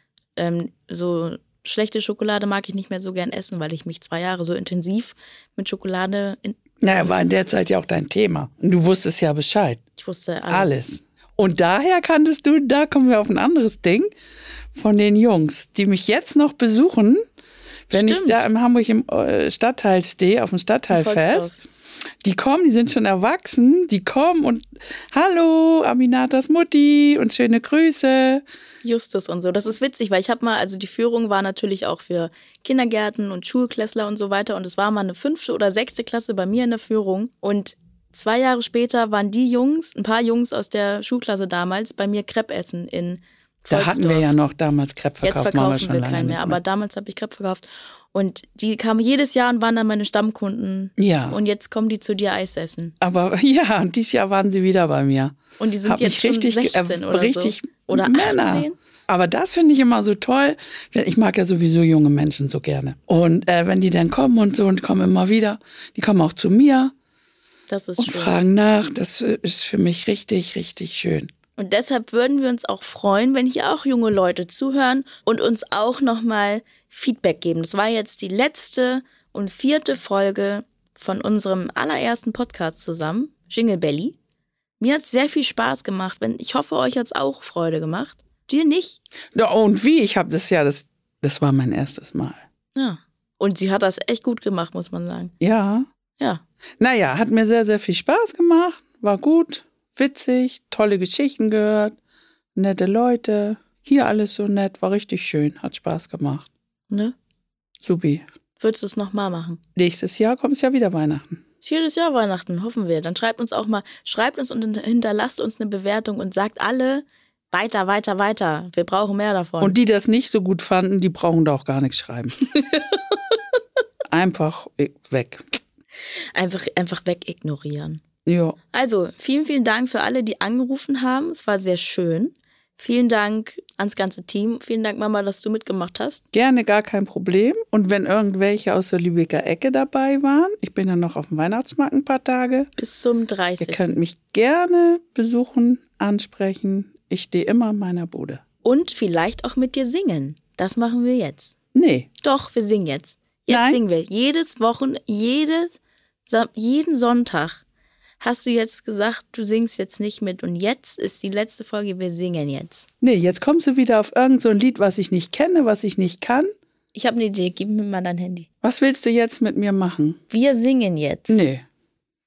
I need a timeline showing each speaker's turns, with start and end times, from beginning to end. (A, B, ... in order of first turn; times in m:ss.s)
0:00.4-0:06.6 A
0:06.8-0:09.8 B
0:10.0-0:10.9 A
0:10.5-0:14.1 B
0:14.8-0:17.2 B
0:17.9-0:21.6 B
0:17.9-0:18.5 A
0:20.9-0:21.6 A
0:22.2-0:28.4 B
0:28.8-0:44.4 A
0:43.7-0:46.6 B
0:45.2-0:53.0 A
0:51.0-0:51.4 B
0:53.0-0:55.4 B
0:55.6-0:58.8 A
0:55.9-1:06.9 B
1:07.7-1:08.4 A
1:08.0-1:11.3 B
1:11.6-1:24.2 A
1:24.8-1:29.0 A
1:29.3-1:32.4 B
1:32.8-1:35.3 A
1:35.4-1:35.9 B
1:36.2-1:36.4 A
1:36.8-1:42.0 B
1:42.6-1:46.5 B
1:46.9-1:47.2 A
1:47.8-1:48.2 B
1:48.6-1:49.6 A
1:49.8-1:51.4 B
1:51.6-1:59.8 A
1:59.6-2:02.4 B
2:02.5-2:03.2 A
2:04.1-2:05.4 B
2:06.1-2:08.0 A
2:08.3-2:08.6 B
2:08.7-2:16.3 A
2:16.3-2:22.7 B
2:22.8-2:23.9 A
2:23.6-2:28.4 B
2:28.6-2:31.6 A
2:31.7-2:32.1 B
2:32.2-2:37.6 A
2:33.5-2:33.8 B
2:38.2-2:42.9 A
2:43.0-2:46.5 B
2:46.9-2:48.5 A
2:48.6-2:50.2 B
2:50.3-2:51.5 A
2:51.3-2:51.6 B